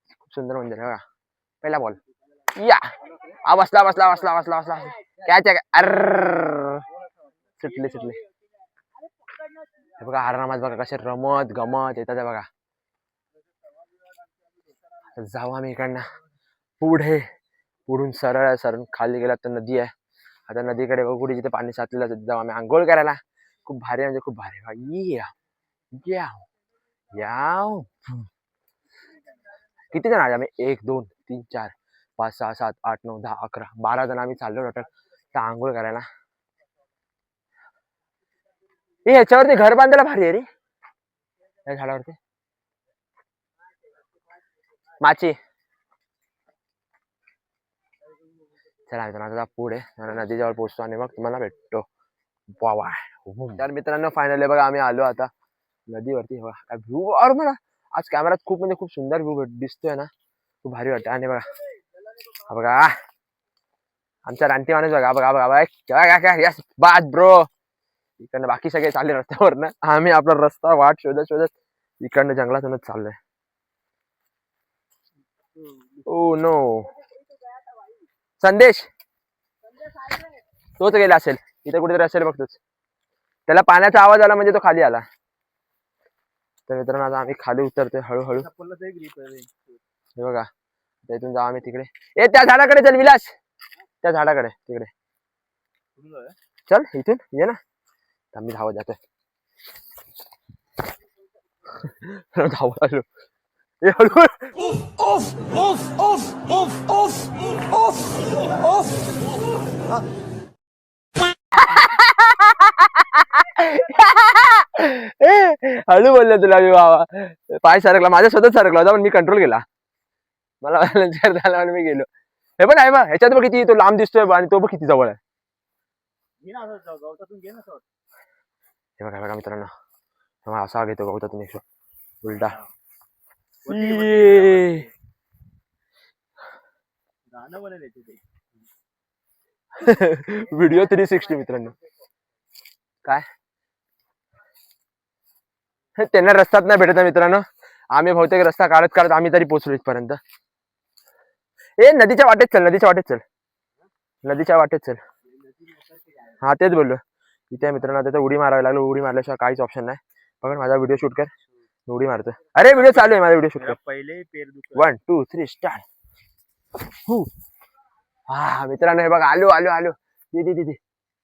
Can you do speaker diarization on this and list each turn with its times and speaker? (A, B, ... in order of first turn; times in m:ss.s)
0:00.2-0:01.0 A
0:01.6-0:02.0 A
0:02.5-0:02.9 A
0:03.4-0:06.8 A
0:07.6-0:08.2 A
0:10.0-0:12.5 A
0:15.2-0:16.0 A
0:16.8-0:17.2 A
0:17.9-0:19.9 A
0:20.5-0:25.3 A
0:25.9-0:26.4 A
0:27.1-0:28.3 A
0:29.9-0:36.1 A
0:39.0-0:40.5 A
0:41.7-0:42.2 A
0:45.0-0:45.4 A
0:48.9-0:51.8 A
0:52.5-0:55.3 A
0:55.9-1:00.1 A
1:00.6-1:01.5 A
1:02.5-1:03.0 A
1:04.2-1:07.5 A
1:08.2-1:13.2 A
1:16.0-1:16.9 A
1:18.4-1:18.9 A
1:20.8-1:22.6 A
1:23.5-1:25.0 A
1:26.7-1:28.5 A
1:28.3-1:29.8 B
1:30.2-1:30.5 A
1:31.1-1:33.3 A
1:34.0-1:34.9 A
1:36.0-1:36.3 B
1:36.7-1:37.6 A
1:38.3-1:39.0 A
1:41.8-1:43.0 A
1:43.8-1:44.7 A
1:51.6-1:59.6 A
2:00.6-2:02.1 A
2:02.6-2:05.2 A
2:06.4-2:07.8 B
2:09.0-2:09.7 A
2:10.4-2:11.6 A
2:12.2-2:12.6 A
2:13.6-2:14.9 B
2:13.7-2:14.8 A
2:17.3-2:18.2 B
2:19.8-2:21.7 A
2:26.0-2:30.2 A
2:31.8-2:33.2 A
2:34.2-2:35.0 A
2:35.3-2:36.4 B
2:36.4-2:41.3 A
2:41.9-2:43.8 A
2:42.7-2:44.9 B
2:44.7-2:45.8 A
2:48.3-2:50.8 A